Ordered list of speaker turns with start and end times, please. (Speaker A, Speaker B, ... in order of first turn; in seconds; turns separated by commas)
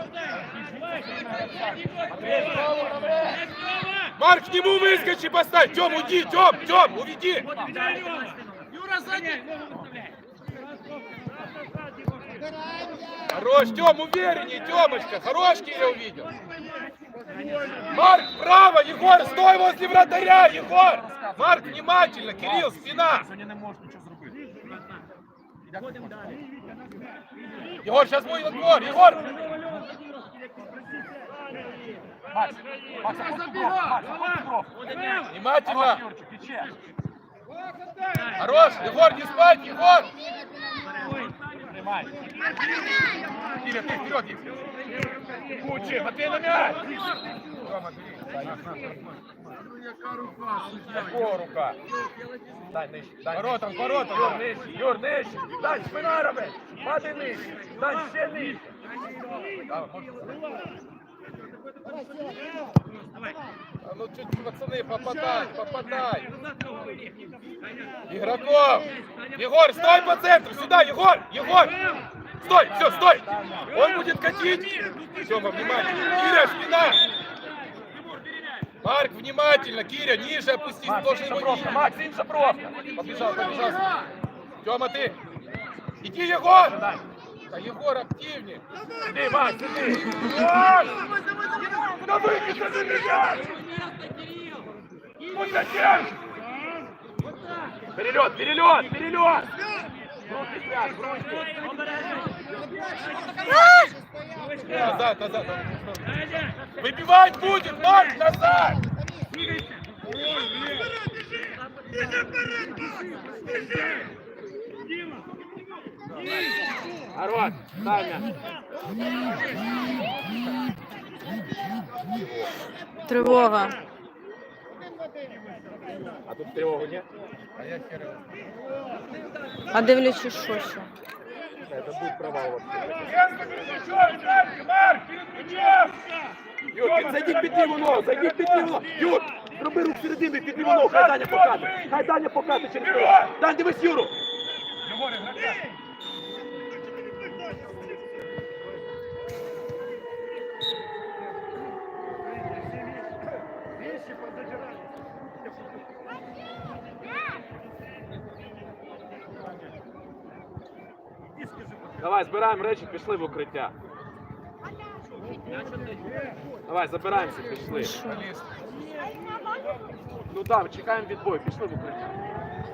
Speaker A: 0.6-3.5, Speaker B: 0.9-1.6, Speaker B: 4.2-7.5, Speaker A: 7.5-8.3, Speaker B: 13.3-16.3, Speaker B: 17.9-23.3, Speaker A: 20.8-21.8, Speaker A: 22.4-24.4, Speaker A: 25.7-26.2, Speaker B: 27.8-29.4, Speaker A: 32.3-34.9, Speaker B: 35.3-36.0, Speaker A: 35.6-36.7, Speaker B: 38.3-40.1, Speaker A: 41.5-42.1, Speaker B: 43.4-44.6, Speaker A: 45.6-46.9, Speaker B: 45.7-46.0, Speaker B: 47.6-48.9, Speaker A: 48.4-49.0, Speaker A: 50.8-51.8, Speaker A: 52.7-58.7, Speaker B: 53.3-54.5, Speaker A: 59.7-60.4, Speaker B: 63.8-66.3, Speaker B: 68.1-71.8, Speaker B: 72.4-77.1, Speaker A: 72.5-73.8, Speaker B: 78.8-81.9, Speaker A: 80.8-82.8, Speaker B: 82.9-83.8, Speaker B: 84.6-85.2, Speaker B: 86.0-86.8, Speaker A: 86.7-87.0, Speaker B: 87.5-88.6, Speaker A: 89.0-91.0, Speaker B: 90.2-90.8, Speaker A: 91.7-93.6, Speaker B: 95.3-96.2, Speaker A: 95.3-96.1, Speaker A: 97.9-99.5, Speaker A: 100.2-101.6, Speaker B: 104.6-108.8, Speaker A: 104.6-105.0, Speaker A: 117.1-118.3, Speaker A: 122.1-122.5, Speaker C: 123.1-123.8, Speaker A: 123.2-123.5, Speaker A: 126.3-127.1, Speaker B: 127.6-128.2, Speaker C: 129.7-130.9, Speaker A: 131.7-133.2, Speaker B: 133.0-136.0, Speaker A: 136.7-144.2, Speaker B: 136.7-138.9, Speaker B: 140.5-142.1, Speaker B: 142.7-143.4, Speaker B: 144.8-145.7, Speaker A: 162.0-163.7, Speaker A: 166.7-168.0, Speaker B: 167.8-168.5, Speaker A: 170.3-172.2